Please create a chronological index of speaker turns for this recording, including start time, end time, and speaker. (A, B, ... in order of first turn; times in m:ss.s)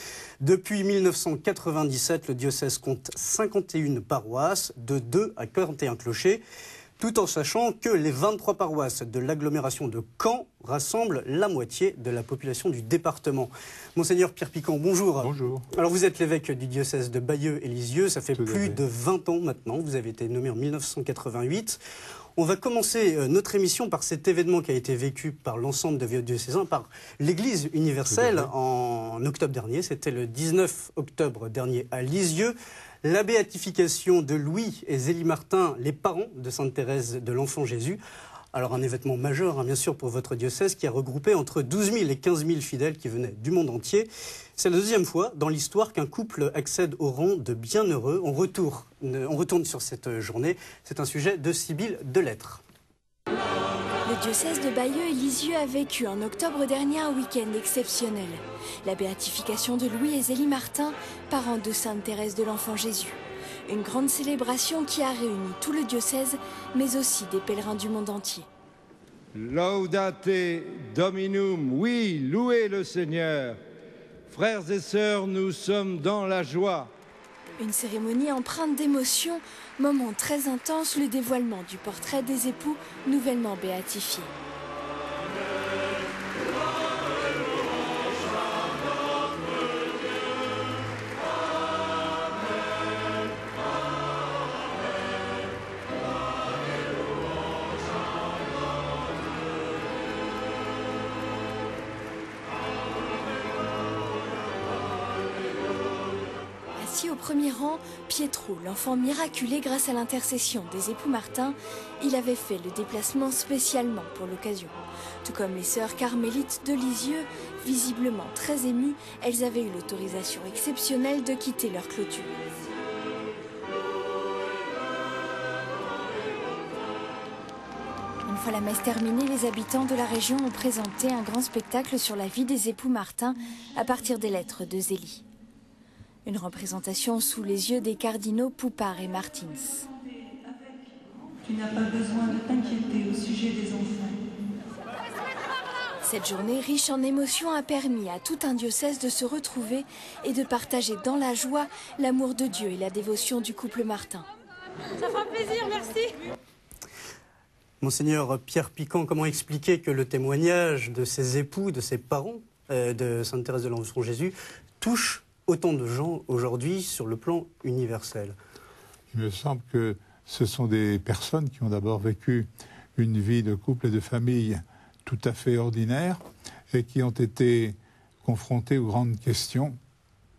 0:00.4-0:06.4 A
0:07.0-0:21.8 A
0:15.2-0:15.7 B
0:18.3-0:18.8 B
0:22.4-0:38.0 A
0:28.0-0:28.5 B
0:38.5-0:52.6 A
0:54.0-1:08.5 C
1:09.3-1:13.6 D
1:14.3-1:16.9 D
1:17.6-1:24.3 C
1:46.8-2:02.3 C
2:08.2-2:15.2 C
2:16.2-2:19.9 C
2:21.8-2:23.9 E
2:26.0-2:34.2 C
2:37.8-2:48.3 A
2:49.1-2:56.2 B
2:56.7-2:59.8 B